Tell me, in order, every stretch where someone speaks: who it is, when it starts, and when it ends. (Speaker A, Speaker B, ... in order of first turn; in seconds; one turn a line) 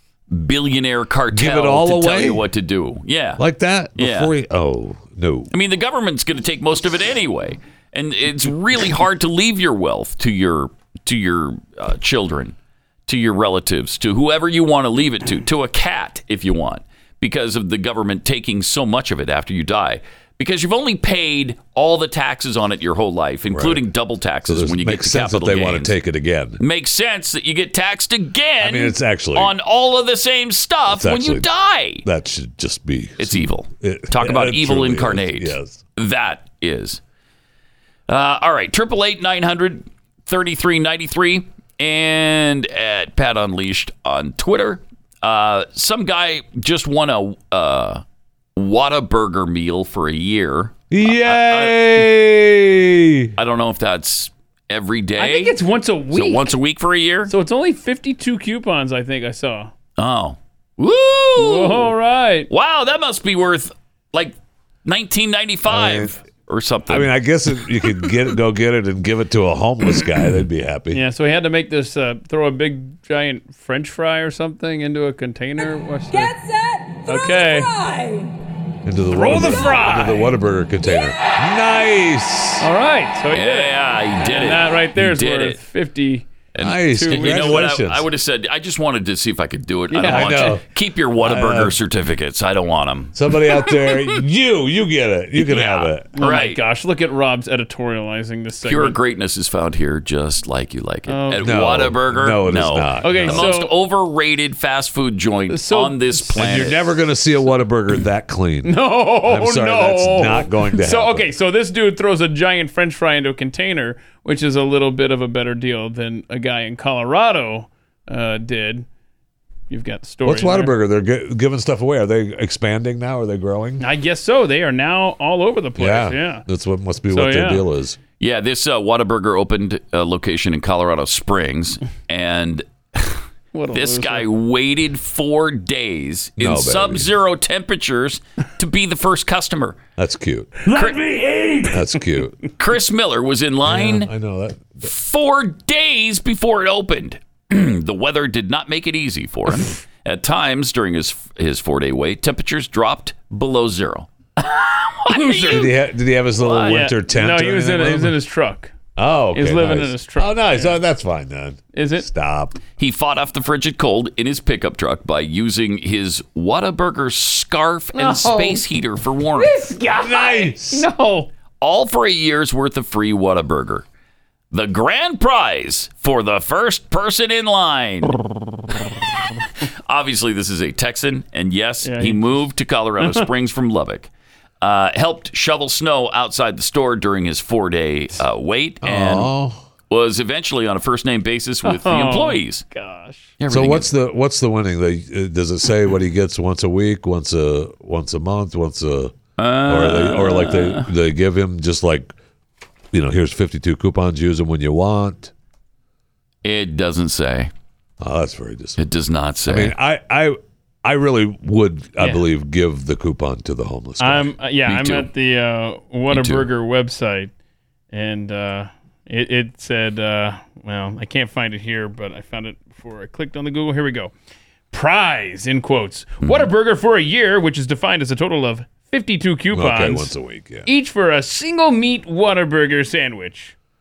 Speaker A: 0.3-3.4
Speaker B: 1.3-2.4
Speaker B: 3.4-5.5
Speaker A: 4.0-4.3
Speaker A: 5.5-12.5
Speaker A: 13.1-25.9
Speaker B: 23.5-23.9
Speaker B: 24.4-26.6
Speaker A: 26.6-32.0
Speaker B: 28.6-29.5
Speaker B: 30.9-35.8
Speaker A: 33.2-37.0
Speaker A: 38.1-48.0
Speaker A: 48.5-52.0
Speaker B: 50.9-53.4
Speaker A: 53.4-55.6
Speaker C: 55.2-56.5
Speaker A: 56.1-57.3
Speaker C: 57.3-59.7
Speaker A: 60.0-61.9
Speaker C: 61.4-62.5
Speaker A: 62.5-67.1
Speaker B: 65.7-66.2
Speaker B: 66.9-71.0
Speaker C: 70.9-76.4
Speaker C: 77.0-77.7
Speaker B: 78.8-82.7
Speaker C: 79.1-80.3
Speaker C: 82.6-86.3
Speaker A: 83.3-85.6
Speaker A: 86.5-93.4
Speaker B: 86.6-88.1
Speaker C: 86.8-87.6
Speaker C: 89.9-90.6
Speaker B: 90.0-90.6
Speaker B: 91.2-91.7
Speaker B: 93.1-96.1
Speaker A: 95.3-96.6
Speaker C: 96.1-99.0
Speaker A: 98.6-106.9
Speaker C: 101.1-101.8
Speaker B: 101.4-103.5
Speaker C: 103.0-103.7
Speaker C: 105.5-106.7
Speaker B: 106.3-111.3
Speaker C: 108.6-118.8
Speaker C: 119.7-120.8
Speaker B: 120.2-123.8
Speaker C: 123.8-126.4
Speaker B: 125.8-128.0
Speaker C: 127.1-127.6
Speaker A: 128.2-139.8
Speaker C: 133.5-134.3
Speaker B: 136.4-137.1
Speaker B: 140.0-140.8
Speaker A: 140.6-141.6
Speaker B: 141.6-142.4
Speaker A: 142.6-144.1
Speaker B: 143.6-144.9
Speaker A: 144.8-155.7
Speaker C: 155.2-155.7
Speaker B: 155.3-158.2
Speaker A: 156.4-156.8
Speaker C: 156.6-158.7
Speaker B: 159.0-162.6
Speaker C: 159.3-160.8
Speaker C: 161.7-162.1
Speaker A: 162.8-169.5
Speaker C: 167.9-168.6
Speaker C: 169.3-171.3
Speaker B: 169.9-170.9
Speaker A: 171.6-173.8
Speaker A: 174.5-178.2
Speaker A: 179.8-184.1
Speaker C: 181.8-182.4
Speaker C: 183.0-183.2
Speaker A: 184.6-189.3
Speaker B: 188.8-189.6
Speaker A: 189.9-192.6
Speaker C: 191.6-193.3
Speaker A: 193.4-193.9
Speaker B: 193.5-199.1
Speaker A: 199.4-200.9
Speaker B: 199.7-202.1
Speaker B: 202.9-205.3
Speaker A: 206.4-207.5
Speaker B: 208.0-208.8
Speaker A: 208.8-209.7
Speaker B: 209.4-214.3
Speaker C: 212.0-212.2
Speaker C: 214.0-217.3
Speaker A: 214.7-215.1
Speaker A: 216.1-216.5
Speaker C: 217.9-224.1
Speaker C: 224.7-230.1
Speaker B: 229.5-230.7
Speaker C: 230.7-233.5